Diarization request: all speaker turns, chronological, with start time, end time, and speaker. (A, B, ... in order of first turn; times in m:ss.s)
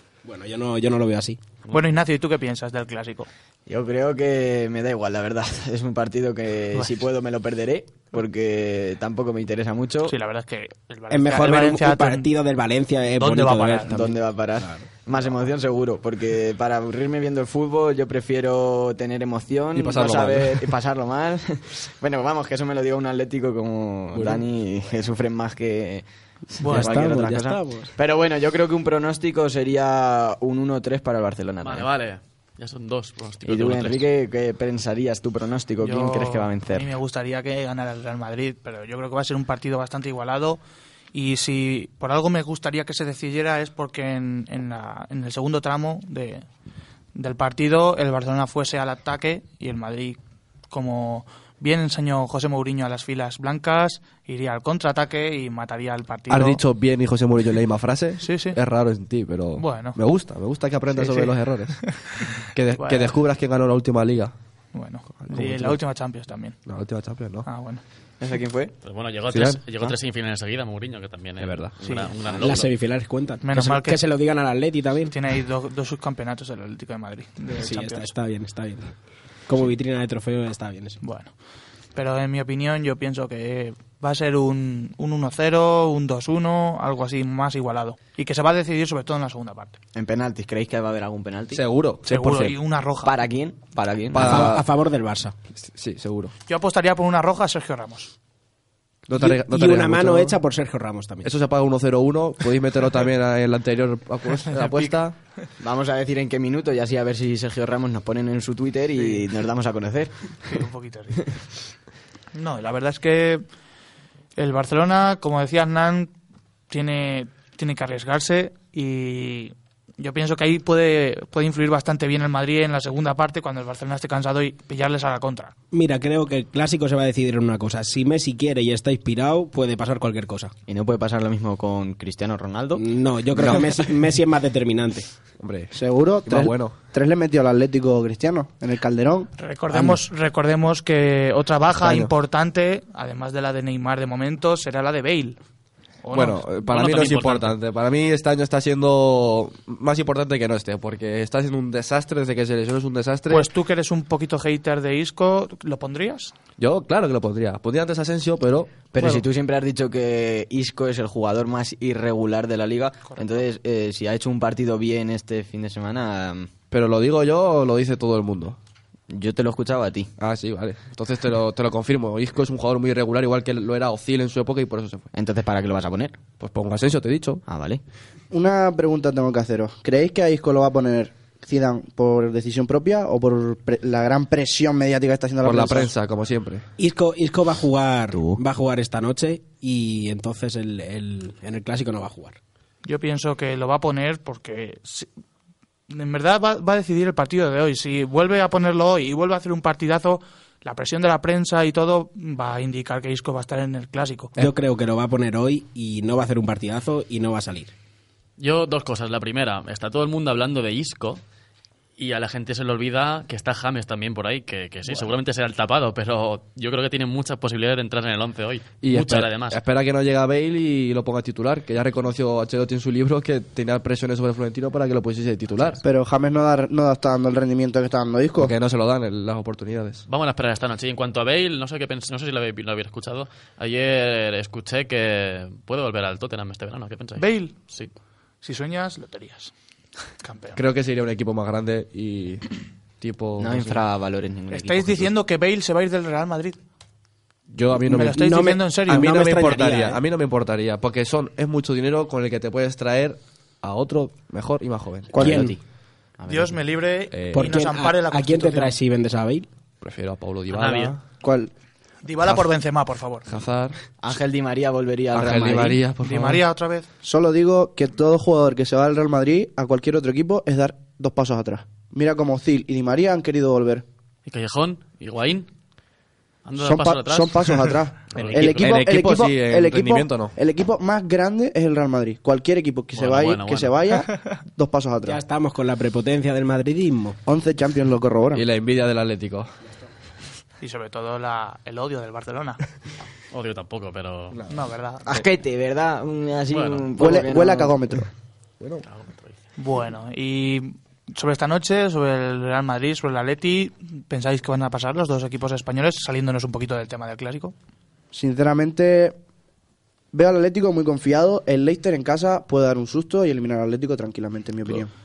0:00.2-0:01.4 A
0:01.7-0:03.3 B
0:03.7-0:10.1 C
0:10.0-0:12.3 B
0:11.1-0:15.3 A
0:13.2-0:14.1 B
0:13.9-0:26.0 C
0:19.7-0:20.7 D
0:24.1-0:24.5 A
0:26.6-0:27.0 B
0:26.6-0:27.9 A
0:26.7-0:31.9 C
0:31.6-0:34.0 E
0:33.4-0:36.9 C
0:35.8-0:40.6 B
0:41.1-0:46.4 B
0:47.1-0:50.2 B
0:50.7-0:56.6 B
0:56.3-1:04.3 D
0:58.2-0:58.6 B
0:59.6-1:00.0 B
1:00.9-1:03.1 B
1:04.7-1:06.6 B
1:05.2-1:05.8 D
1:06.6-1:07.5 D
1:07.4-1:07.8 B
1:08.2-1:08.8 C
1:08.8-1:12.7 E
1:09.3-1:09.6 D
1:11.4-1:11.7 D
1:11.8-1:12.1 B
1:12.3-1:15.1 A
1:13.4-1:14.0 B
1:15.1-1:18.1 B
1:17.6-1:21.0 A
1:21.0-1:21.4 B
1:21.9-1:29.8 B
1:29.9-1:31.6 C
1:31.5-1:32.6 D
1:32.0-1:33.1 B
1:33.0-1:34.4 C
1:34.1-1:34.7 D
1:34.2-1:35.3 A
1:35.5-1:36.3 D
1:36.5-1:38.1 B
1:39.1-1:40.4 D
1:39.2-1:41.3 A
1:41.2-1:45.2 D
1:44.5-1:45.0 B
1:45.6-1:50.5 C
1:49.0-1:49.2 B
1:50.4-1:51.4 B
1:52.3-1:53.4 B
1:54.4-1:56.1 B
1:56.7-2:05.5 B
2:05.7-2:10.5 A
2:10.7-2:12.8 C
2:12.7-2:15.1 A
2:13.3-2:13.7 D
2:15.4-2:16.7 D
2:15.7-2:19.9 F
2:19.4-2:25.4 B
2:21.7-2:22.1 D
2:26.0-2:26.5 B
2:26.1-2:33.5 D
2:26.7-2:27.5 E
2:33.3-2:36.3 B
2:36.6-2:39.0 D
2:38.9-2:46.5 C
2:43.0-2:43.4 B
2:46.7-2:48.6 D
2:49.1-2:50.1 C
2:50.2-2:55.0 D
2:55.1-2:56.2 C
2:56.4-2:57.4 D
2:57.4-2:57.8 C
2:58.3-3:05.9 F
3:05.4-3:06.6 D
3:06.8-3:12.4 A
3:12.8-3:15.1 B
3:15.9-3:24.3 B
3:24.4-3:27.7 A
3:28.4-3:31.2 E
3:32.0-3:39.6 E
3:38.8-3:45.8 D
3:45.8-3:48.5 F
3:48.4-3:50.0 D
3:50.1-3:57.9 E
3:57.2-3:57.7 B
3:58.4-3:59.5 B
4:00.1-4:00.6 B
4:00.5-4:03.8 D
4:03.4-4:05.1 C
4:04.5-4:06.6 B
4:07.5-4:08.2 D
4:07.8-4:09.2 B
4:08.1-4:10.0 A
4:08.9-4:15.4 D
4:15.1-4:15.4 F
4:15.2-4:15.5 A
4:15.2-4:15.6 C
4:16.2-4:16.6 C
4:16.3-4:18.8 B
4:17.1-4:17.5 D
4:17.3-4:19.5 A
4:19.8-4:21.0 D
4:20.5-4:20.9 E
4:21.2-4:21.5 F
4:22.0-4:23.2 B
4:22.2-4:22.5 D
4:23.1-4:23.8 D
4:24.0-4:25.8 C
4:25.1-4:26.4 D
4:26.0-4:26.9 B
4:27.0-4:33.8 F
4:34.2-4:35.5 E
4:36.4-4:38.8 E
4:36.6-4:45.2 F
4:38.1-4:38.4 A
4:38.6-4:40.3 D
4:42.9-4:43.9 E
4:45.0-4:47.2 A
4:47.2-4:48.4 F
4:48.3-4:49.5 D
4:50.6-4:52.6 B
4:53.3-4:54.4 E
4:54.3-4:55.2 D
4:54.5-4:55.1 B
4:55.0-4:57.8 C
4:56.5-4:57.2 E
4:57.0-4:58.1 F
4:58.6-4:58.8 D
4:58.8-4:59.3 E
4:59.6-5:07.5 B
5:08.1-5:09.2 F
5:10.1-5:14.9 F